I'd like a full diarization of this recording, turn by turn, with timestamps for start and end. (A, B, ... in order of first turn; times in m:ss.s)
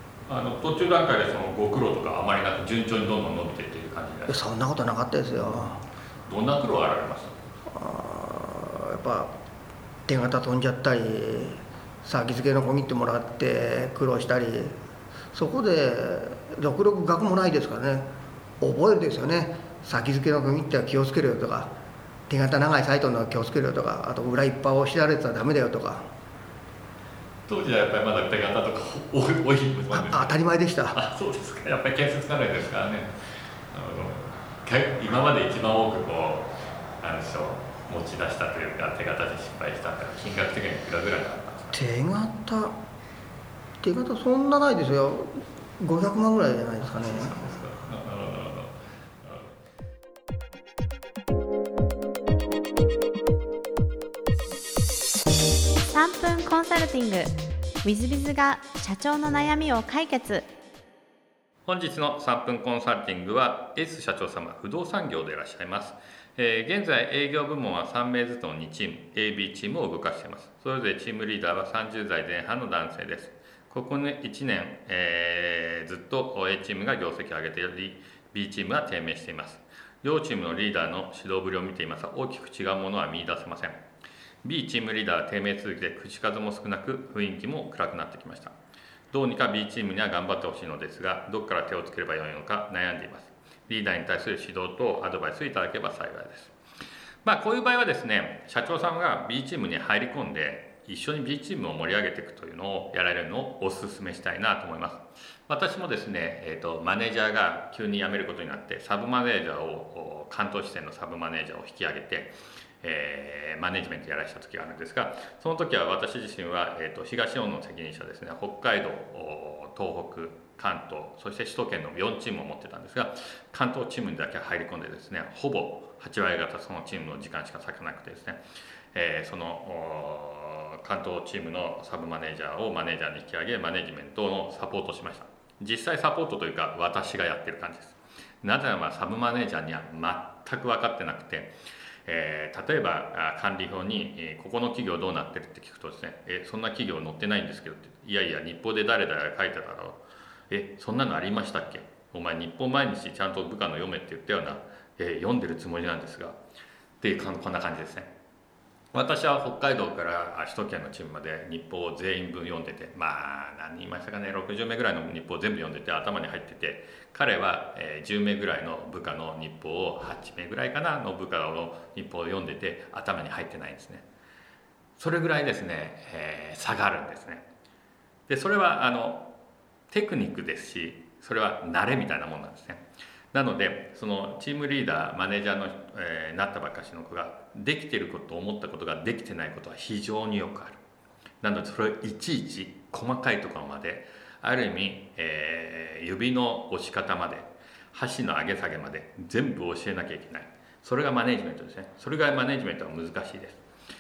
0:00.3-0:04.5 A
0:04.3-0:05.8 B
0:05.4-0:07.4 A
0:07.7-0:09.3 B
0:10.1-0:14.7 B
0:15.3-0:18.0 B
0:18.6-0:21.7 B
0:22.3-0:26.1 B
0:27.5-0:33.1 A
0:29.9-0:31.0 B
0:33.7-0:41.8 A
0:41.7-0:42.7 B
0:43.8-0:47.4 B
0:46.8-0:49.5 A
0:55.9-0:57.3 C
0:57.8-1:00.4 C
1:01.6-1:23.8 A
1:24.4-1:28.5 A
1:29.1-1:36.5 A
1:37.2-2:21.5 A
2:22.0-2:36.4 A
2:37.0-2:38.1 A
2:38.9-2:54.0 A
2:55.0-2:57.4 A
2:58.3-2:59.3 A
2:59.9-3:02.8 A
3:03.3-3:10.8 A
3:11.4-3:23.6 A